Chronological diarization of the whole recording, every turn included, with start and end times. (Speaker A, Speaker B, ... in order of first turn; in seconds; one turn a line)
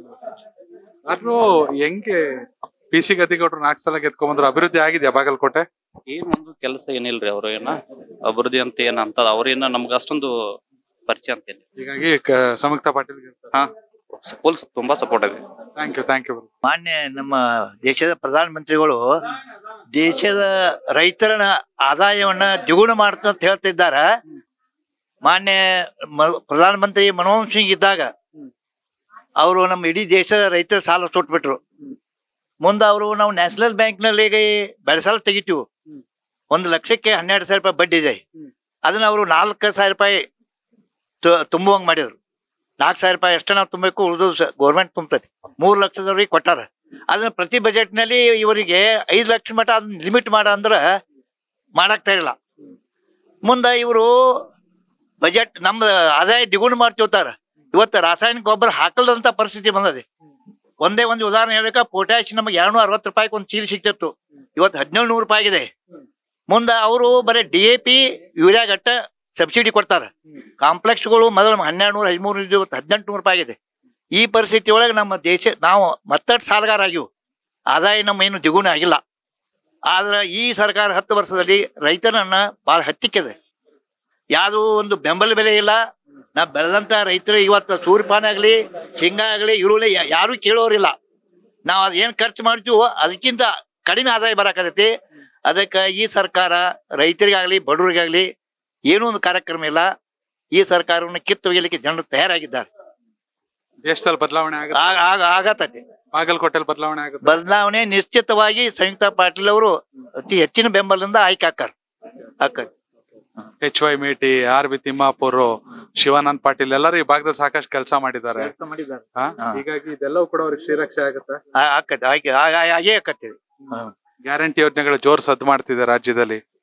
Speaker A: 1.1-5.7
Speaker B: 6.1-10.6
Speaker B: 11.1-11.6
Speaker A: 11.8-13.4
Speaker B: 13.5-15.4
Speaker A: 15.8-16.5
Speaker C: 16.6-19.0
Speaker C: 19.9-24.1
Speaker C: 25.2-28.1
Speaker C: 29.4-31.6
Speaker C: 32.6-35.7
Speaker C: 36.5-38.2
Speaker C: 38.9-40.2
Speaker C: 41.2-42.1
Speaker C: 42.8-50.8
Speaker C: 51.8-52.4
Speaker C: 53.5-54.5
Speaker C: 55.2-60.0
Speaker C: 60.8-65.7
Speaker C: 66.5-73.6
Speaker C: 74.2-77.1
Speaker C: 77.7-79.0
Speaker C: 79.9-83.3
Speaker C: 84.4-85.8
Speaker C: 86.4-91.0
Speaker C: 91.7-94.9
Speaker C: 95.5-98.3
Speaker C: 98.9-99.9
Speaker C: 100.5-102.7
Speaker A: 103.8-105.0
Speaker C: 104.7-105.8
Speaker A: 106.1-107.3
Speaker C: 107.2-109.7
Speaker C: 110.2-111.7
Speaker C: 112.4-112.7
Speaker A: 113.6-121.4
Speaker C: 121.6-123.8
Speaker A: 124.2-126.4